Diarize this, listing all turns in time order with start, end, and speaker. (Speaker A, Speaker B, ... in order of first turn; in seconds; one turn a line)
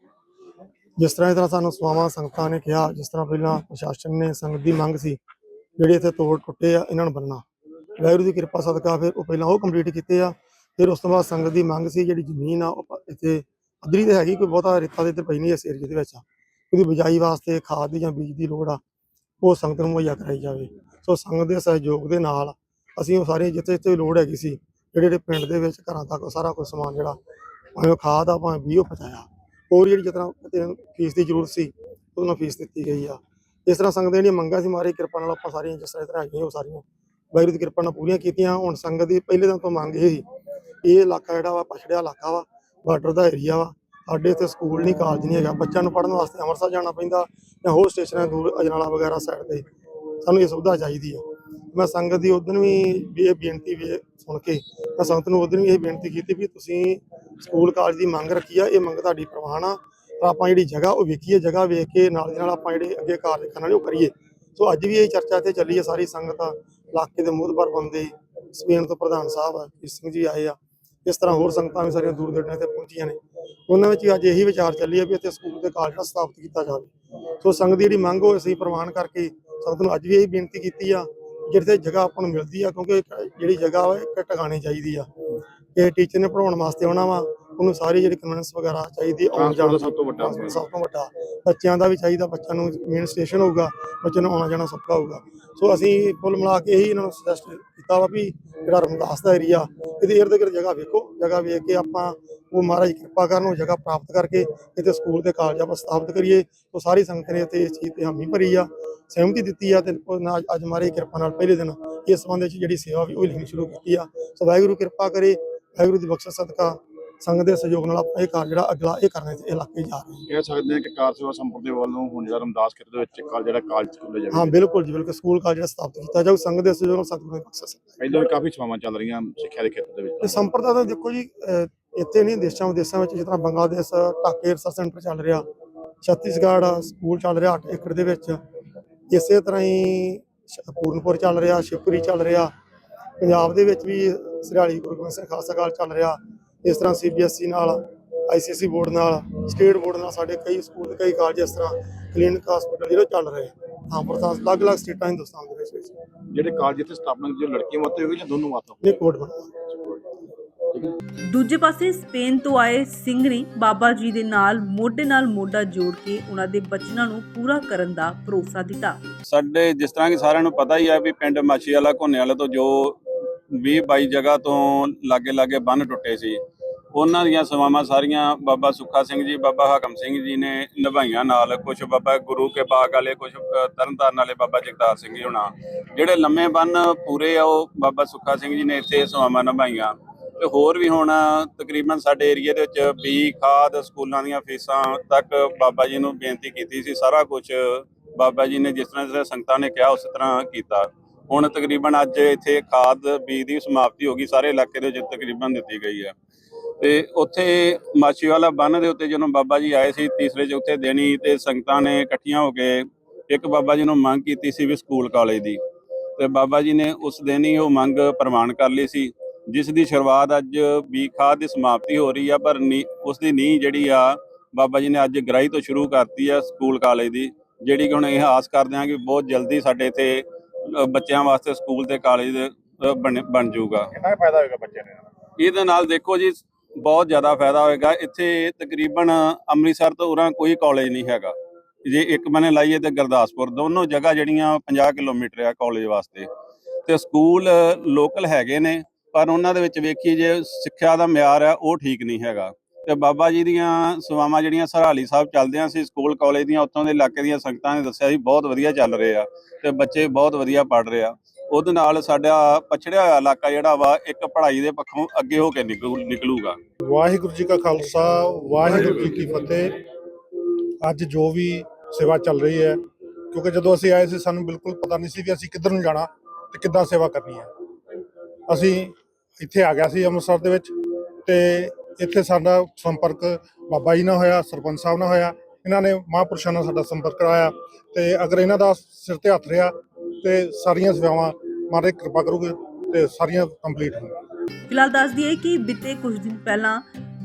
Speaker A: 1.0-5.2
Speaker A: 5.8-7.4
Speaker A: 8.0-18.8
Speaker A: 19.4-27.2
Speaker A: 27.8-40.3
Speaker A: 40.8-49.7
Speaker A: 50.2-76.9
Speaker A: 77.4-85.1
Speaker A: 85.8-120.2
Speaker B: 89.3-90.6
Speaker B: 120.3-124.6
Speaker A: 124.3-128.0
Speaker B: 128.0-130.4
Speaker A: 130.2-135.4
Speaker A: 136.0-138.4
Speaker A: 139.1-142.5
Speaker A: 143.2-156.0
Speaker B: 156.3-159.0
Speaker A: 158.8-159.5
Speaker C: 161.3-169.0
Speaker D: 169.2-173.0
Speaker D: 173.5-176.4
Speaker D: 176.9-206.1
Speaker D: 206.8-215.6
Speaker D: 216.2-233.9
Speaker B: 234.0-235.0
Speaker D: 235.4-241.3
Speaker D: 241.9-246.3
Speaker D: 246.9-266.6
Speaker E: 266.8-269.8
Speaker E: 270.8-277.5
Speaker E: 278.5-280.7
Speaker E: 281.3-294.2
Speaker C: 294.7-296.8